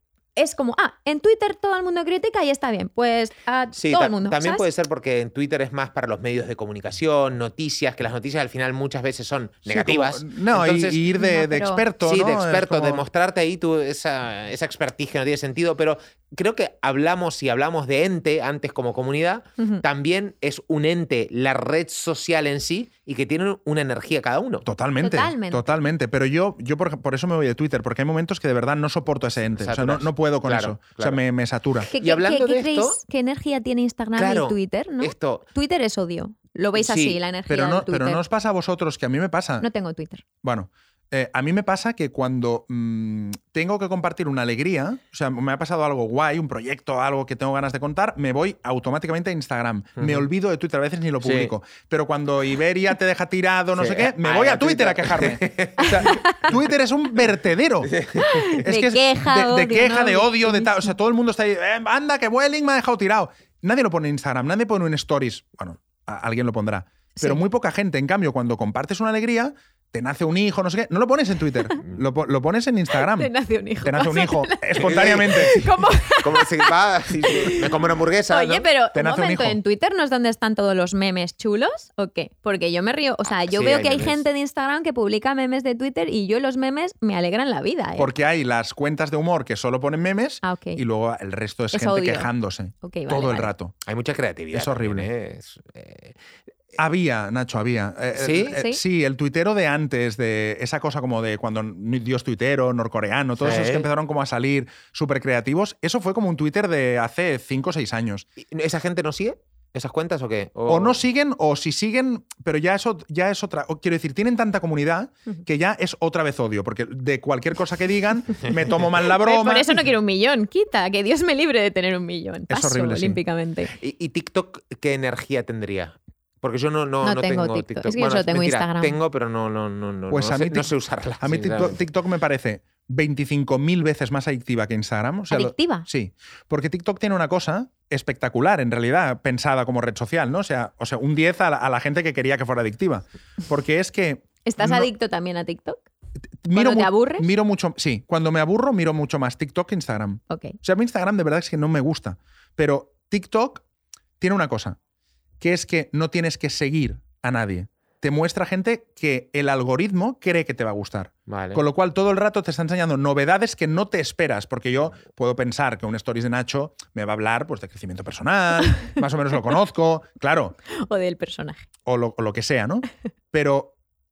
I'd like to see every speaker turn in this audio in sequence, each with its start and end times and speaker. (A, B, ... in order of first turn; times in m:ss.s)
0:00.4-0:04.6 A
0:03.7-0:11.0 B
0:09.7-0:13.0 C
0:11.1-0:11.8 A
0:12.0-0:24.6 B
0:24.6-0:31.9 C
0:25.0-0:25.8 A
0:29.6-0:31.2 B
0:31.9-0:38.2 A
0:32.0-0:33.0 B
0:34.1-0:35.4 B
0:36.8-0:37.2 B
0:37.5-0:39.7 C
0:39.6-0:40.2 A
0:40.4-0:58.0 C
0:50.0-0:50.3 B
0:51.2-0:51.5 B
0:53.8-0:56.2 B
0:55.9-0:56.4 A
0:57.9-0:58.6 B
0:58.2-1:00.9 A
0:58.6-1:13.3 C
1:07.2-1:07.4 A
1:13.0-1:17.8 A
1:13.8-1:15.6 C
1:14.8-1:18.7 B
1:18.3-1:28.1 A
1:18.9-1:19.6 C
1:23.5-1:24.2 B
1:28.0-1:33.8 C
1:30.4-1:30.8 A
1:31.7-1:32.3 A
1:32.8-1:33.5 A
1:33.8-1:36.2 B
1:34.5-1:35.1 C
1:36.8-1:48.3 C
1:38.2-1:38.6 B
1:43.4-1:43.9 B
1:48.4-1:51.0 B
1:50.7-1:59.9 C
1:59.0-2:03.7 A
2:02.5-2:03.2 C
2:03.8-2:11.8 B
2:07.0-2:09.0 A
2:10.1-2:10.7 C
2:11.2-2:24.9 C
2:15.3-2:15.9 A
2:24.4-2:25.8 A
2:26.4-2:33.6 C
2:26.5-2:27.3 A
2:30.3-2:30.6 A
2:34.2-2:34.8 C
2:35.4-2:50.6 C
2:41.3-2:41.6 B
2:50.7-2:51.6 A
2:51.9-2:53.7 C